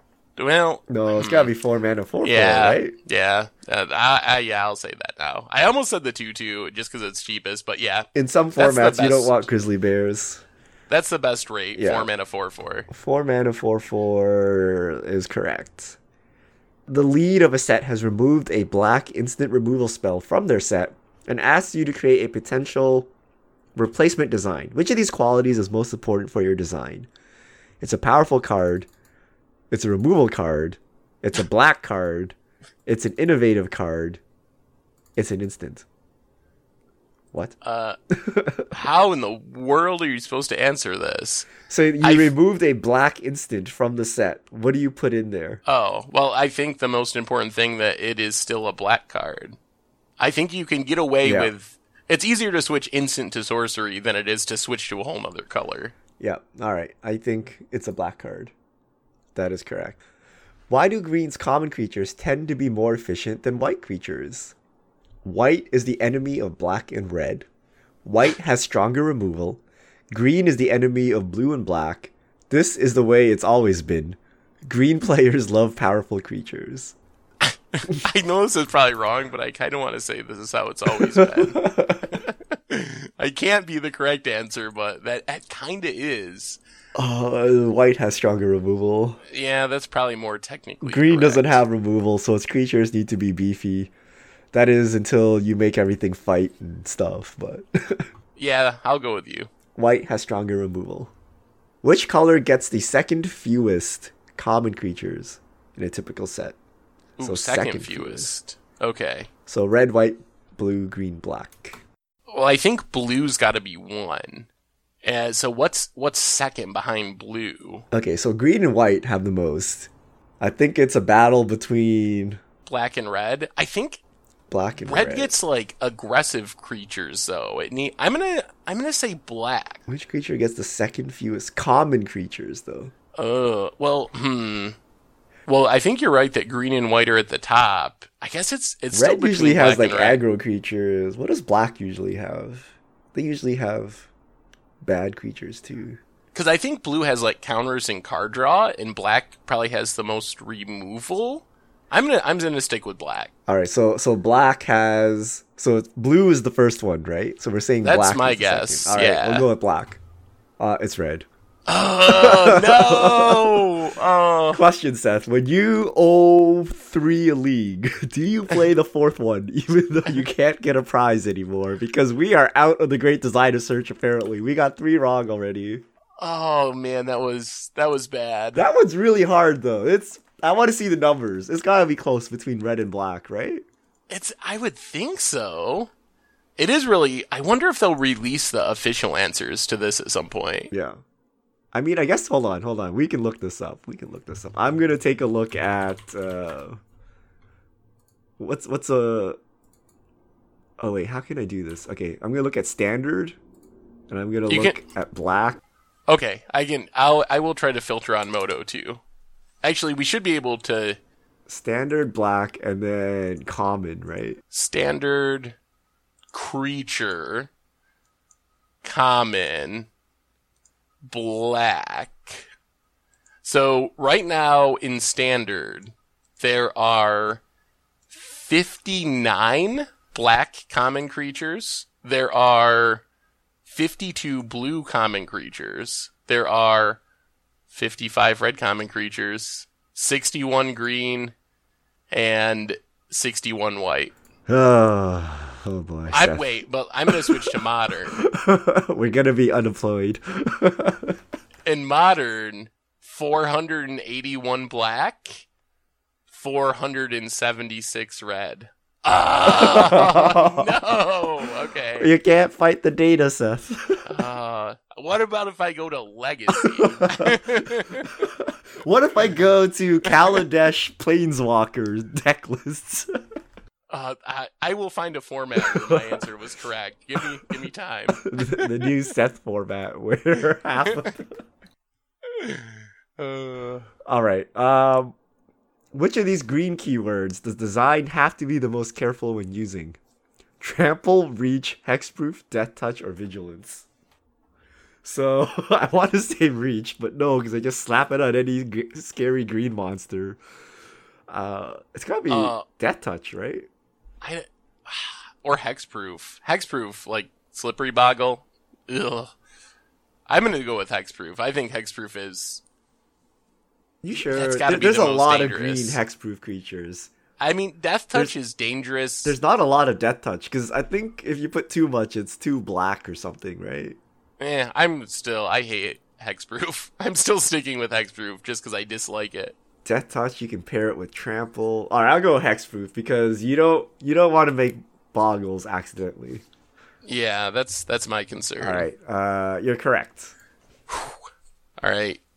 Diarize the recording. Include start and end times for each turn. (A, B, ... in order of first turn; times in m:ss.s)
0:00.4-0:01.5 A
0:00.9-0:03.0 B
0:02.2-0:09.4 A
0:08.2-0:10.4 B
0:10.9-0:12.9 A
0:11.8-0:12.1 B
0:12.9-0:16.0 B
0:16.9-0:23.1 B
0:23.8-0:27.1 B
0:27.8-0:28.9 B
0:29.7-0:34.2 B
0:35.2-0:35.9 B
0:37.6-0:38.0 A
0:38.1-0:38.7 B
0:38.7-0:42.3 A
0:41.7-0:45.6 B
0:45.6-0:49.6 A
0:50.2-0:55.9 A
0:51.2-0:51.5 B
0:56.2-0:58.5 B
0:59.4-1:00.0 B
1:00.7-1:04.6 B
1:05.2-1:07.5 B
1:08.0-1:17.0 B
1:17.4-1:26.6 A
1:21.0-1:22.1 B
1:27.0-1:29.2 B
1:29.3-1:31.6 A
1:30.8-1:33.9 B
1:34.5-1:38.1 B
1:38.4-1:39.5 A
1:39.8-1:41.1 B
1:41.8-1:46.6 B
1:47.2-1:49.3 A
1:47.2-1:48.3 B
1:49.5-1:51.8 B
1:52.3-1:54.5 A
1:55.0-1:57.8 A
1:57.9-1:59.9 B
2:00.4-2:02.4 B
2:02.7-2:04.0 A
2:04.5-2:05.3 B
2:04.8-2:09.8 A
2:09.9-2:12.9 B
2:13.2-2:14.8 A
2:15.5-2:20.2 A
2:18.9-2:24.1 B
2:24.8-2:26.0 B
2:26.3-2:33.3 A
2:33.5-2:40.0 B
2:37.8-2:39.5 A
2:40.6-2:41.3 B
2:41.7-2:44.6 A
2:42.1-2:43.7 B
2:44.5-2:55.8 B
2:56.2-2:58.6 A
2:58.6-3:03.6 B
3:04.1-3:05.9 A
3:06.6-3:10.7 A
3:10.7-3:11.0 B
3:11.7-3:16.8 B
3:18.4-3:19.4 B
3:20.8-3:23.4 B
3:24.1-3:25.6 B
3:24.5-3:24.8 A
3:26.1-3:29.0 A
3:29.6-3:31.0 A
3:31.5-3:34.4 B
3:34.5-3:35.6 A
3:36.3-3:37.5 A
3:38.8-3:39.9 A
3:41.1-3:42.4 A
3:43.4-3:47.4 A
3:48.1-3:53.0 A
3:53.7-3:57.0 A
3:57.7-4:01.4 A
4:02.1-4:04.1 A
4:04.5-4:06.5 B
4:06.1-4:08.2 A
4:07.1-4:07.6 B
4:08.2-4:11.2 B
4:11.7-4:15.5 A
4:16.3-4:22.1 A
4:19.4-4:20.7 B
4:22.0-4:24.2 B
4:24.1-4:28.2 A
4:26.6-4:33.1 B
4:33.9-4:38.2 A
4:35.6-4:36.3 B
4:38.2-4:41.4 B
4:42.3-4:43.9 A
4:44.0-4:45.2 B
4:45.9-4:50.0 B
4:50.6-4:53.9 B
4:55.0-5:00.4 B
5:01.3-5:03.7 B
5:02.3-5:02.7 A
5:04.2-5:09.3 A
5:10.3-5:12.6 A
5:14.0-5:17.1 B
5:14.1-5:16.0 A
5:17.4-5:19.4 A
5:19.2-5:24.0 B
5:24.4-5:29.6 A
5:29.8-5:36.4 B
5:37.0-5:38.9 A
5:38.6-5:40.3 B
5:40.9-5:41.2 A
5:41.8-5:42.2 A